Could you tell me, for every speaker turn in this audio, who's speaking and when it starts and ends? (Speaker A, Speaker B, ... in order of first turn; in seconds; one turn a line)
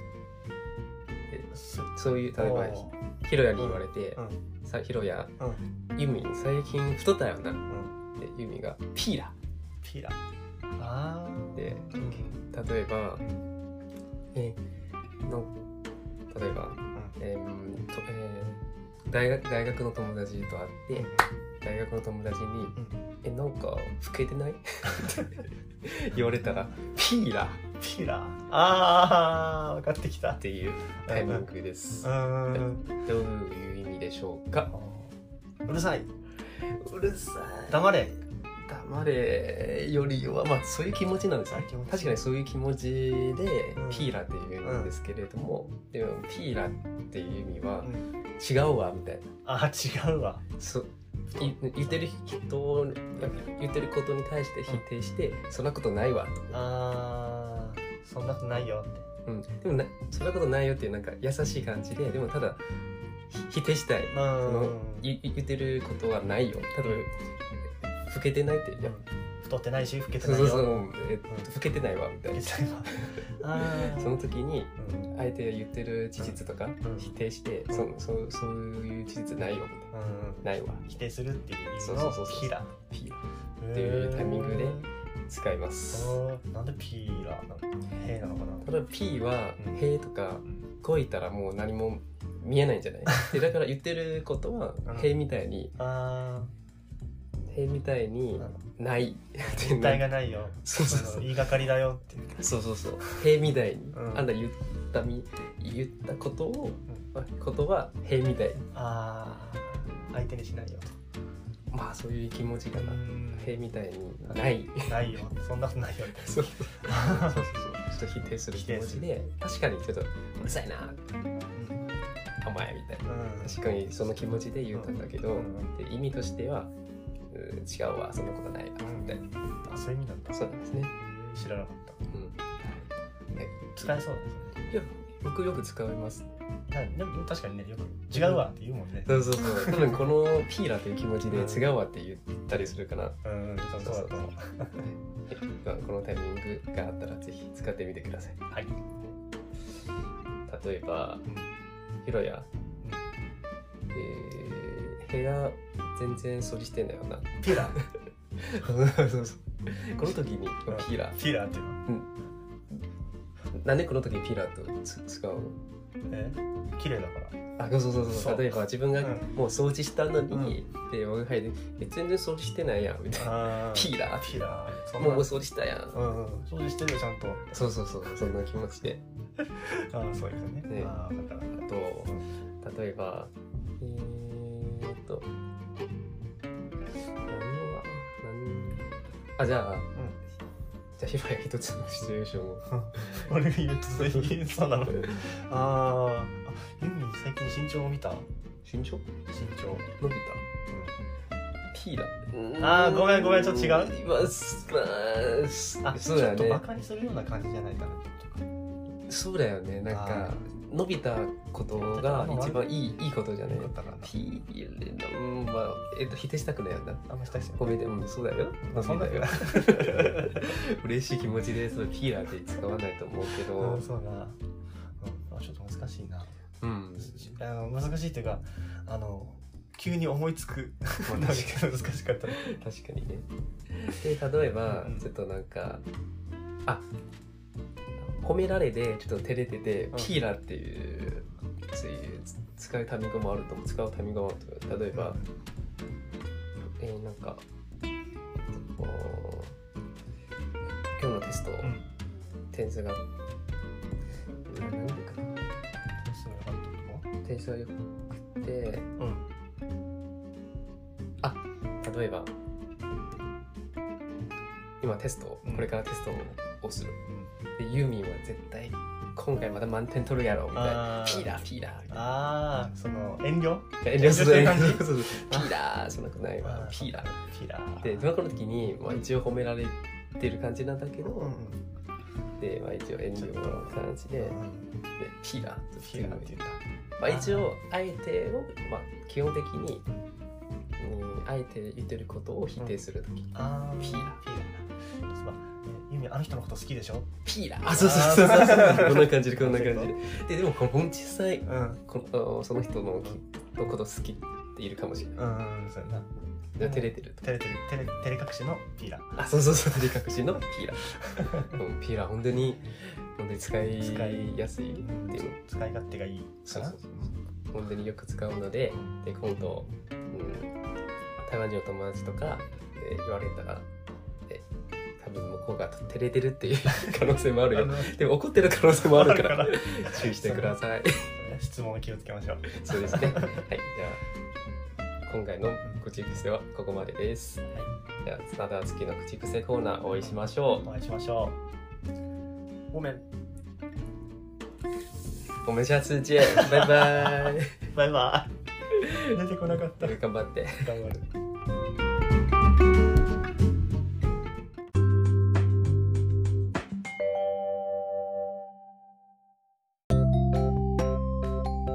Speaker A: 1.3-5.3
Speaker B: 1.5-3.0
Speaker B: 3.6-4.4
Speaker A: 6.0-7.6
Speaker B: 7.7-7.9
Speaker A: 8.2-9.3
Speaker B: 9.8-10.2
Speaker B: 10.8-12.4
Speaker A: 11.5-13.2
Speaker B: 13.2-13.4
Speaker A: 14.3-14.6
Speaker A: 15.2-15.5
Speaker A: 16.3-27.6
Speaker B: 20.9-21.3
Speaker B: 27.8-30.4
Speaker A: 30.4-34.7
Speaker B: 31.0-31.5
Speaker B: 32.0-33.0
Speaker B: 34.7-36.1
Speaker A: 36.6-38.0
Speaker B: 37.7-38.2
Speaker A: 38.6-49.3
Speaker B: 41.5-42.2
Speaker B: 43.8-44.9
Speaker B: 49.4-50.4
Speaker A: 50.6-56.6
Speaker B: 51.3-52.0
Speaker B: 56.5-59.1
Speaker A: 59.2-62.6
Speaker A: 63.3-67.1
Speaker B: 64.1-65.1
Speaker A: 68.0-69.0
Speaker B: 68.8-71.5
Speaker A: 70.2-79.9
Speaker B: 72.3-74.2
Speaker B: 74.8-75.1
Speaker B: 76.2-77.1
Speaker B: 79.9-82.7
Speaker A: 80.4-80.8
Speaker A: 81.8-86.2
Speaker B: 83.6-84.9
Speaker B: 85.9-88.7
Speaker A: 88.6-95.8
Speaker B: 94.8-95.1
Speaker B: 95.8-96.5
Speaker A: 97.5-100.1
Speaker B: 99.4-102.5
Speaker A: 100.6-101.3
Speaker A: 102.4-108.6
Speaker B: 103.9-104.3
Speaker B: 108.6-111.0
Speaker A: 111.7-115.2
Speaker B: 112.7-113.7
Speaker B: 114.8-117.6
Speaker A: 116.1-121.0
Speaker B: 118.5-119.1
Speaker B: 121.5-121.9
Speaker A: 122.4-126.7
Speaker B: 123.0-123.6
Speaker B: 124.7-125.7
Speaker A: 127.3-129.2
Speaker B: 128.8-130.4
Speaker A: 130.3-130.9
Speaker B: 131.0-132.0
Speaker A: 132.1-134.0
Speaker B: 133.8-134.6
Speaker A: 134.7-136.3
Speaker B: 136.7-140.1
Speaker A: 138.1-138.5
Speaker A: 139.0-143.2
Speaker B: 141.3-141.7
Speaker B: 142.5-144.8
Speaker A: 143.8-144.2
Speaker A: 144.8-148.4
Speaker B: 148.5-148.8
Speaker A: 150.5-151.3
Speaker A: 152.0-152.5
Speaker A: 153.9-161.2
Speaker B: 157.4-157.8
Speaker B: 160.7-161.8
Speaker A: 163.5-165.6
Speaker B: 166.1-167.4
Speaker A: 167.6-176.0
Speaker B: 168.1-169.3
Speaker B: 170.3-170.6
Speaker B: 173.1-175.3
Speaker B: 175.9-177.5
Speaker A: 177.5-179.0
Speaker B: 179.5-182.2
Speaker A: 180.7-180.9
Speaker A: 181.5-185.3
Speaker A: 187.2-189.9
Speaker A: 191.0-193.3
Speaker B: 192.7-198.3
Speaker A: 194.0-195.3
Speaker A: 198.6-199.1
Speaker B: 199.3-199.9
Speaker A: 200.0-200.4
Speaker B: 200.7-200.9
Speaker A: 201.7-206.6
Speaker B: 202.6-204.0
Speaker B: 205.8-208.4
Speaker A: 209.1-223.8
Speaker B: 209.9-210.3
Speaker B: 211.7-212.7
Speaker B: 213.4-214.1
Speaker B: 217.1-217.8
Speaker B: 218.6-220.4
Speaker B: 223.6-224.4
Speaker B: 225.0-226.3
Speaker A: 226.6-227.3
Speaker B: 227.0-232.4
Speaker A: 231.1-231.6
Speaker A: 232.3-235.8
Speaker B: 234.7-235.1
Speaker A: 238.1-245.2
Speaker B: 244.9-245.3
Speaker A: 246.8-247.4
Speaker A: 248.7-249.5
Speaker A: 251.0-251.8
Speaker B: 251.6-251.9
Speaker A: 252.5-253.0
Speaker A: 254.5-255.3
Speaker B: 256.0-257.1
Speaker A: 257.2-257.8
Speaker A: 258.4-258.9
Speaker B: 259.0-259.2
Speaker A: 261.2-262.3
Speaker A: 264.8-266.9
Speaker B: 265.4-265.7
Speaker B: 267.1-267.3
Speaker A: 267.6-272.1
Speaker B: 270.5-275.5
Speaker A: 273.8-277.2
Speaker B: 276.4-278.1
Speaker A: 277.8-281.4
Speaker B: 281.0-281.6
Speaker A: 282.4-284.4
Speaker B: 283.1-284.7
Speaker A: 285.0-286.4
Speaker B: 285.8-287.5
Speaker A: 287.0-289.9
Speaker A: 290.8-294.2
Speaker B: 293.3-297.1
Speaker A: 297.2-305.2
Speaker B: 297.7-299.9
Speaker B: 301.4-301.8
Speaker B: 305.2-309.2
Speaker A: 306.6-307.2
Speaker A: 309.1-315.4
Speaker B: 310.9-311.6
Speaker B: 313.8-314.3
Speaker B: 314.8-317.1
Speaker A: 316.4-316.9
Speaker A: 317.5-320.5
Speaker B: 318.7-319.0
Speaker A: 321.2-323.6
Speaker A: 325.0-331.1
Speaker B: 327.5-328.0
Speaker B: 328.6-330.6
Speaker B: 331.1-333.4
Speaker A: 332.5-334.0
Speaker A: 335.1-337.4
Speaker A: 338.0-340.7
Speaker B: 340.0-341.4
Speaker B: 342.7-343.1
Speaker A: 345.4-347.6
Speaker B: 346.3-348.3
Speaker A: 348.7-350.7
Speaker B: 348.8-350.0
Speaker B: 350.6-351.1